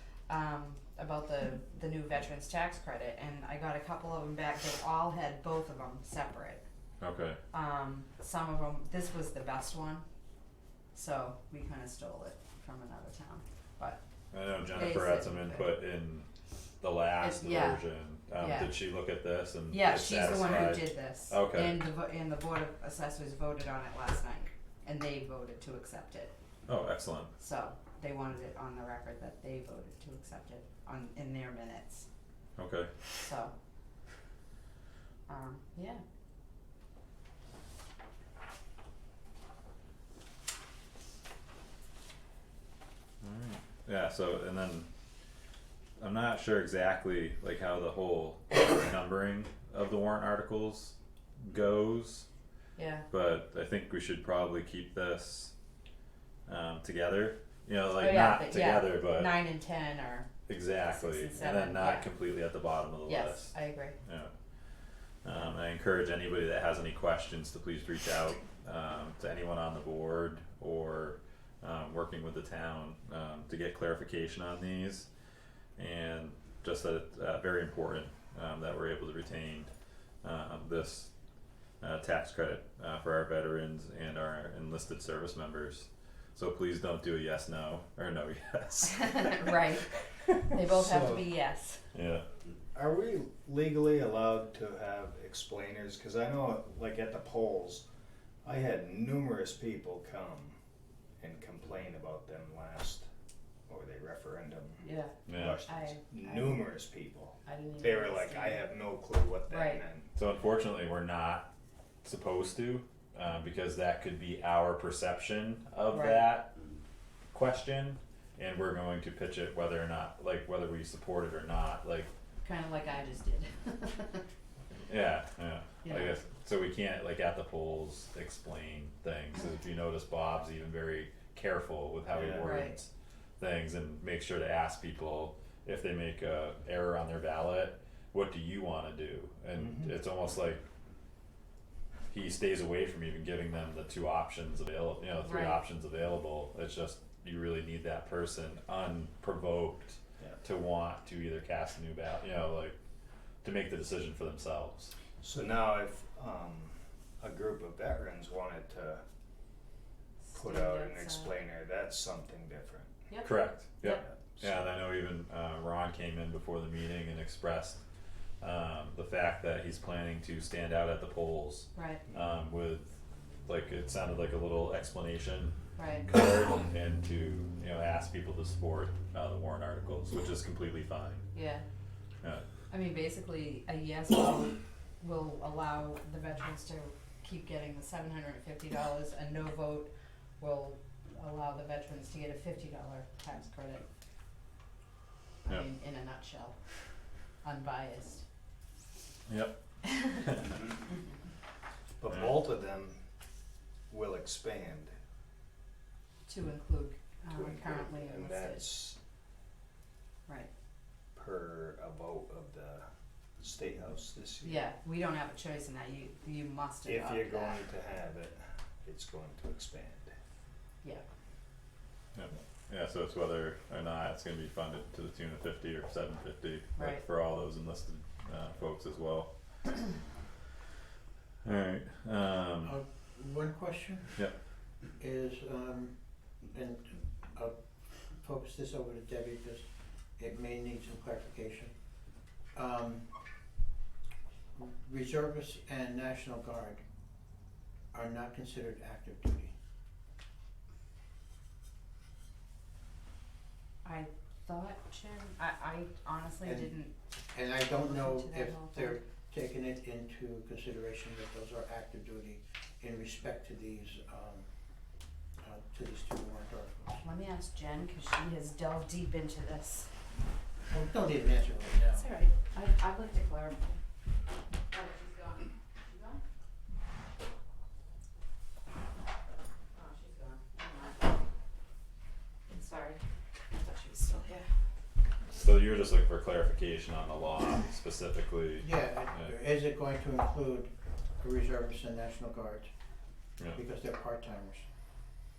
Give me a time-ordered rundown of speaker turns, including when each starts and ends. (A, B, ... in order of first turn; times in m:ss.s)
0:00.3-0:06.6 A
0:07.0-0:07.4 B
0:07.5-0:10.0 A
0:10.9-0:14.0 A
0:14.3-0:16.3 B
0:14.7-0:15.7 A
0:16.8-0:21.8 B
0:17.2-0:17.8 A
0:18.4-0:18.8 A
0:19.7-0:26.3 A
0:26.7-0:27.3 B
0:27.4-0:32.1 A
0:32.6-0:32.9 B
0:33.2-0:33.5 A
0:35.3-0:36.0 A
0:43.2-0:44.9 B
0:46.0-0:52.3 B
0:52.8-0:53.1 A
0:53.1-0:55.5 B
0:56.5-0:59.4 B
0:58.0-1:00.3 A
1:00.5-1:04.3 B
1:00.8-1:02.1 A
1:03.1-1:04.0 A
1:05.2-1:15.1 B
1:15.8-1:19.7 B
1:20.2-1:21.1 B
1:21.8-1:29.7 B
1:28.9-1:29.9 A
1:30.5-1:31.9 A
1:30.6-1:31.2 C
1:31.9-1:32.2 B
1:32.7-1:37.8 C
1:38.4-1:40.6 C
1:41.2-1:43.1 C
1:43.7-1:50.1 C
1:44.8-1:46.7 A
1:45.3-1:45.6 B
1:47.4-1:48.6 A
1:49.5-1:49.8 A
1:50.2-1:51.5 B
1:52.0-1:56.5 B
1:55.9-1:56.3 A
1:57.3-2:02.1 B
2:02.4-2:04.2 A
2:04.9-2:20.6 B
2:05.8-2:06.2 A
2:12.1-2:12.7 C
2:12.4-2:12.8 A
2:19.6-2:19.9 C
2:22.1-2:32.8 B
2:25.2-2:25.6 A
2:33.4-2:34.9 B
2:35.2-2:39.0 C
2:40.2-2:41.4 A
2:40.3-2:43.0 C
2:43.1-2:44.0 A
2:43.2-2:47.8 B
2:43.8-2:44.7 C
2:48.4-2:53.0 B
2:51.8-2:52.0 A
2:53.5-2:55.6 B
2:55.8-2:56.1 A
2:56.1-3:01.3 B
3:01.3-3:01.6 A
3:02.7-3:13.9 A
3:15.5-3:16.6 A
3:17.4-3:18.2 A
3:19.3-3:20.5 B
3:22.0-3:23.0 C
3:23.9-3:24.9 C
3:26.3-3:28.7 A
3:27.3-3:29.0 C
3:31.2-3:32.9 C
3:33.4-3:34.6 C
3:34.4-3:37.6 A
3:36.8-3:40.1 C
3:42.2-3:49.3 B
3:46.8-3:47.0 A
3:51.4-3:52.8 B
3:52.6-3:54.2 D
3:55.0-3:55.9 D
3:56.5-3:57.6 D
3:58.2-4:01.7 D
4:02.5-4:03.1 D
4:04.6-4:06.8 D
4:07.9-4:09.5 D
4:13.8-4:16.9 A
4:16.4-4:16.7 D
4:17.3-4:24.5 D
4:17.8-4:19.0 A
4:25.4-4:26.9 D
4:27.0-4:29.9 A
4:30.7-4:32.1 D
4:32.0-4:33.8 A
4:34.7-4:36.2 A
4:39.8-4:41.1 A
4:42.5-4:43.0 A
4:43.5-4:44.5 A
4:45.3-4:49.3 B
4:48.6-4:52.7 D
4:53.5-4:54.6 D